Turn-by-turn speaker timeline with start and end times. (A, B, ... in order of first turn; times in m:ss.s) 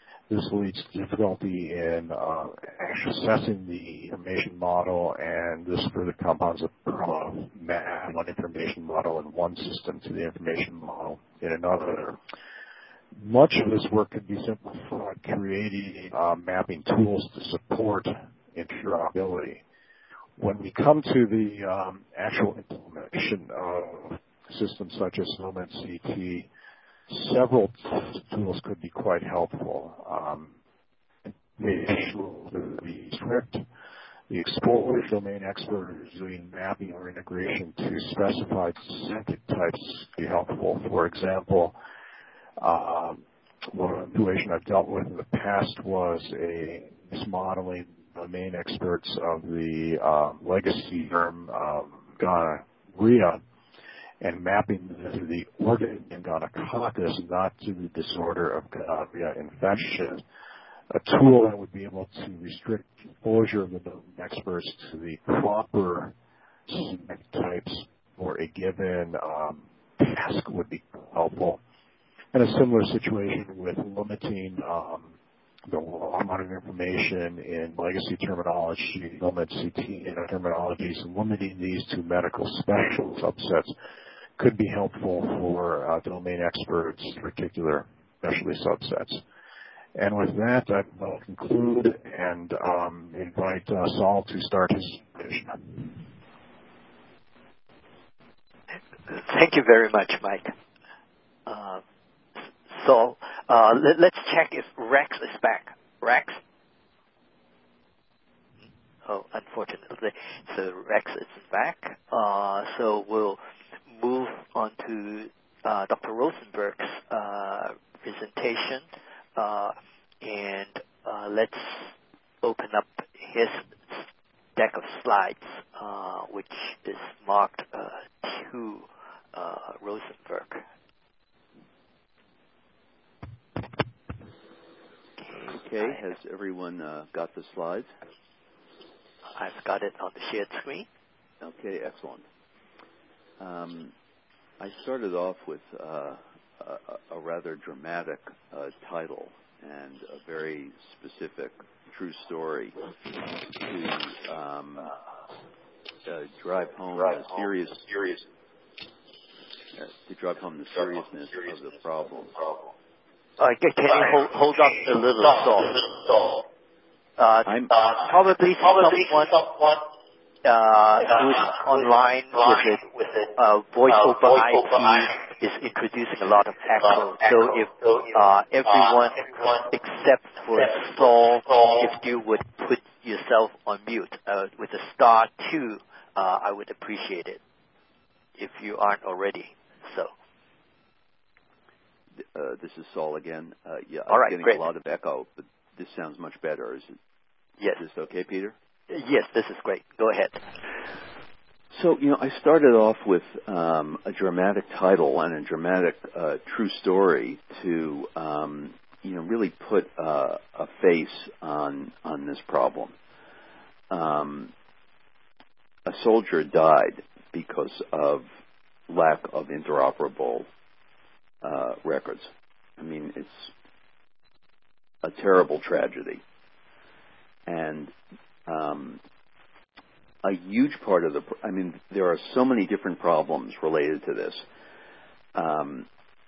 0:00.3-0:12.2 A
0:13.2-0:19.6 A
0:20.4-0:26.5 A
0:27.1-0:30.5 A
0:31.6-0:33.6 A
0:34.3-0:41.8 A
0:42.6-0:53.4 A
0:54.2-1:00.2 A
1:00.9-1:06.1 A
1:06.7-1:11.6 A
1:12.3-1:15.1 A
1:15.7-1:23.7 A
1:24.4-1:29.2 A
1:29.9-1:35.9 A
1:39.1-1:40.5 B
1:41.4-1:41.8 B
1:42.7-1:46.4 B
1:49.0-1:53.4 B
1:54.0-1:58.8 B
1:59.4-2:01.9 B
2:02.4-2:04.0 B
2:04.6-2:10.6 B
2:15.2-2:16.0 B
2:15.4-2:17.9 C
2:19.3-2:20.9 B
2:21.4-2:22.2 C
2:23.4-2:23.9 C
2:24.6-2:32.8 C
2:33.5-2:34.9 C
2:36.0-2:38.2 C
2:39.8-2:42.6 C
2:43.4-2:46.4 B
2:47.2-2:49.8 B
2:47.5-2:47.7 C
2:50.4-3:07.4 B
3:08.4-3:10.1 B
3:12.3-3:17.0 C
3:14.1-3:14.6 B
3:17.8-3:18.5 C
3:18.9-3:20.4 B
3:21.7-3:32.9 C
3:33.9-3:34.5 C
3:35.8-3:38.2 C
3:38.9-3:40.5 C
3:41.4-3:43.5 C
3:45.0-3:46.2 C
3:47.5-3:47.9 C
3:48.5-3:49.0 C
3:50.2-3:54.4 C
3:55.3-3:55.9 C